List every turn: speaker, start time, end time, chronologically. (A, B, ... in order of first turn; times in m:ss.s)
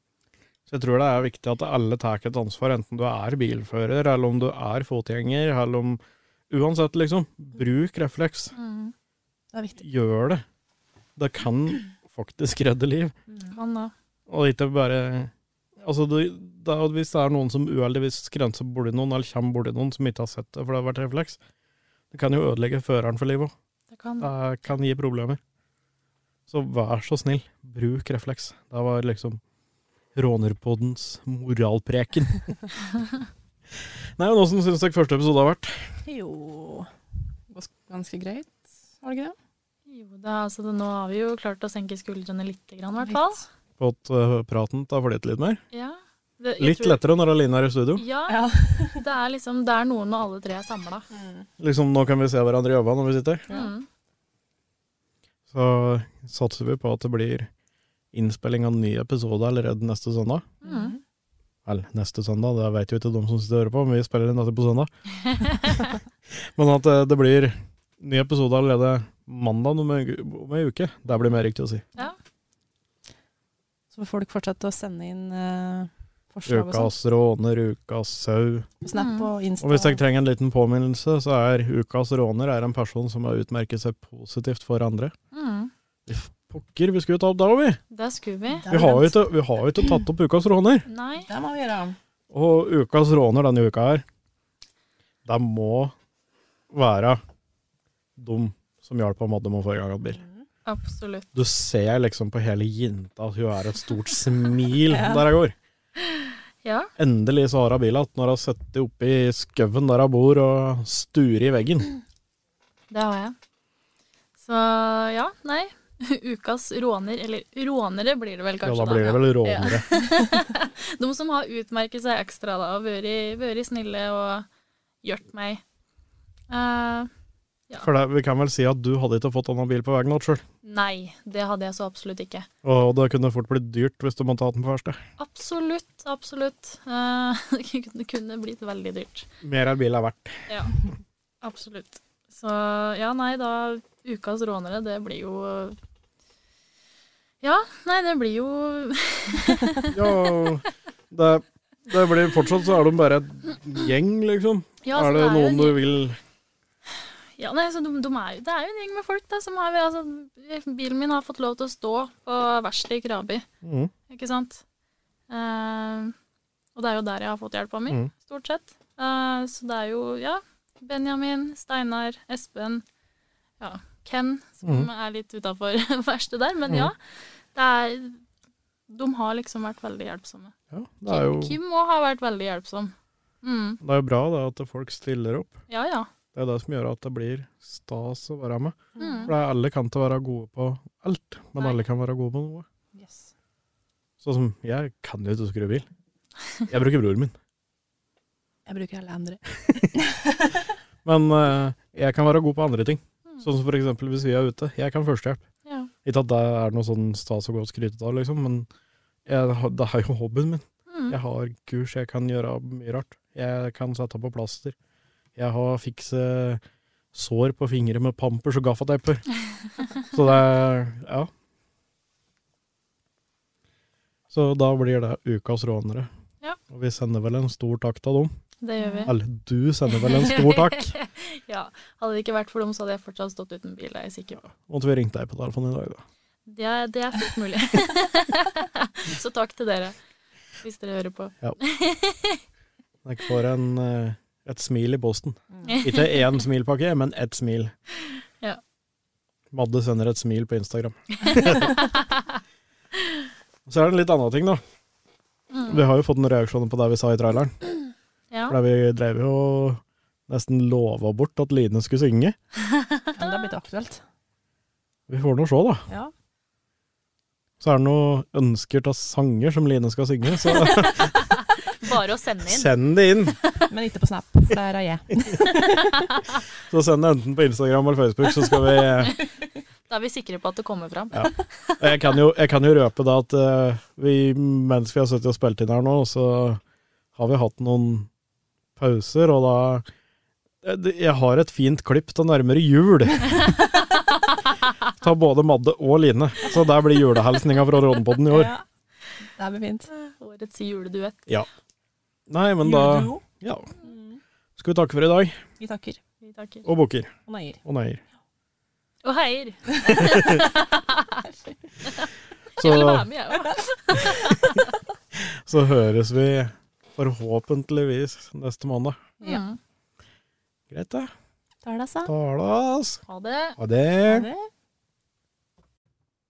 0:00.7-0:08.5 A
0:08.6-0:08.9 B
0:09.5-0:09.8 C
0:09.8-0:10.4 A
0:11.2-0:13.1 A
0:13.5-0:13.9 B
0:14.3-0:21.4 A
0:22.1-0:23.5 A
0:23.9-0:24.3 B
0:24.2-0:25.4 A
0:26.5-0:29.4 A
0:30.1-0:32.5 A
0:34.2-0:35.9 A
0:36.0-0:36.9 C
0:37.5-0:39.4 C
0:39.9-0:43.4 B
0:43.8-0:45.6 A
0:45.7-0:47.0 B
0:46.6-0:48.0 A
0:48.0-0:51.0 B
0:48.3-0:49.0 C
0:51.1-0:51.5 C
0:51.6-0:53.4 A
0:53.5-0:53.9 B
0:55.5-0:57.5 A
0:58.1-1:00.5 A
1:00.6-1:01.0 B
1:00.6-1:01.0 C
1:01.6-1:04.9 A
1:05.3-1:05.8 B
1:06.5-1:11.9 A
1:13.9-1:16.9 C
1:16.5-1:18.7 A
1:18.8-1:20.0 C
1:18.9-1:19.3 B
1:19.6-1:25.1 A
1:25.3-1:25.7 B
1:26.1-1:27.8 A
1:27.9-1:28.7 B
1:28.5-1:29.2 C
1:28.7-1:30.8 A
1:30.9-1:31.3 B
1:31.2-1:32.0 C
1:32.3-1:34.0 A
1:35.2-1:35.9 A
1:36.7-1:37.2 A
1:38.2-1:40.2 A
1:40.0-1:40.4 C
1:40.6-1:41.3 B
1:41.3-1:45.5 A
1:44.8-1:45.3 C
1:46.6-1:46.9 B
1:47.0-1:51.9 A
1:52.9-1:53.3 B
1:54.4-2:04.5 B
1:58.6-1:59.8 A
2:05.0-2:05.6 B
2:06.5-2:07.1 B
2:07.8-2:10.4 A
2:10.6-2:12.5 B
2:12.6-2:15.0 A
2:15.2-2:19.3 B
2:19.4-2:20.5 A
2:21.4-2:25.8 B
2:27.4-2:29.9 B
2:29.9-2:36.2 A
2:34.8-2:35.8 B
2:37.4-2:43.4 B
2:43.6-2:43.9 A
2:44.1-2:44.6 B
2:45.3-2:46.1 B
2:46.7-2:52.8 B
2:53.6-2:58.2 B
2:58.9-3:00.5 B
3:00.7-3:01.6 A
3:01.0-3:03.8 B
3:03.8-3:05.6 A
3:05.7-3:06.1 B
3:06.3-3:12.6 A
3:09.0-3:09.3 C
3:09.0-3:09.3 B
3:12.9-3:13.3 C
3:14.2-3:15.8 A
3:16.7-3:17.3 A
3:18.6-3:20.6 C
3:21.0-3:25.4 A
3:25.6-3:25.9 B
3:26.0-3:28.7 A
3:29.2-3:34.7 A
3:30.9-3:31.2 B
3:35.4-3:36.6 A
3:37.1-3:39.2 A
3:40.1-3:41.3 A
3:44.3-3:46.1 A
3:46.7-3:48.3 A
3:48.6-3:49.1 B
3:48.8-3:49.1 C
3:49.0-3:50.9 A
3:49.9-3:54.4 B
3:54.5-3:56.0 A
3:56.4-3:59.9 B
4:00.6-4:02.4 B
4:03.0-4:07.7 A
4:05.5-4:05.8 C
4:05.6-4:06.3 B
4:09.5-4:11.7 A
4:11.2-4:12.4 B
4:13.6-4:14.6 A
4:15.5-4:15.8 B
4:15.7-4:17.6 A
4:18.3-4:18.6 B
4:18.5-4:22.4 A
4:22.7-4:23.4 B
4:23.1-4:24.0 C
4:25.1-4:25.8 A
4:27.6-4:31.3 A
4:30.7-4:32.7 B
4:32.5-4:33.4 A
4:33.7-4:36.1 C
4:36.7-4:39.2 A
4:39.9-4:41.8 B
4:41.1-4:46.6 A
4:47.1-4:48.1 A
4:48.8-4:49.8 A
4:50.6-4:53.5 A
4:55.0-4:58.5 A
4:58.3-4:58.6 C
4:59.4-4:59.9 C
4:59.9-5:01.3 B
5:02.3-5:03.7 A
5:02.6-5:03.2 C
5:03.8-5:04.2 C
5:04.6-5:05.4 A
5:05.6-5:06.0 C
5:06.2-5:06.6 B
5:06.6-5:07.1 A
5:07.3-5:07.6 C
5:07.6-5:08.0 A
5:09.0-5:11.2 B
5:10.0-5:10.4 A
5:11.9-5:14.7 B
5:12.6-5:13.1 A
5:15.2-5:19.0 A
5:19.2-5:19.6 B
5:20.7-5:21.1 A
5:21.6-5:22.1 C
5:22.0-5:23.0 A
5:23.1-5:23.6 B
5:23.6-5:24.3 A
5:24.1-5:24.5 C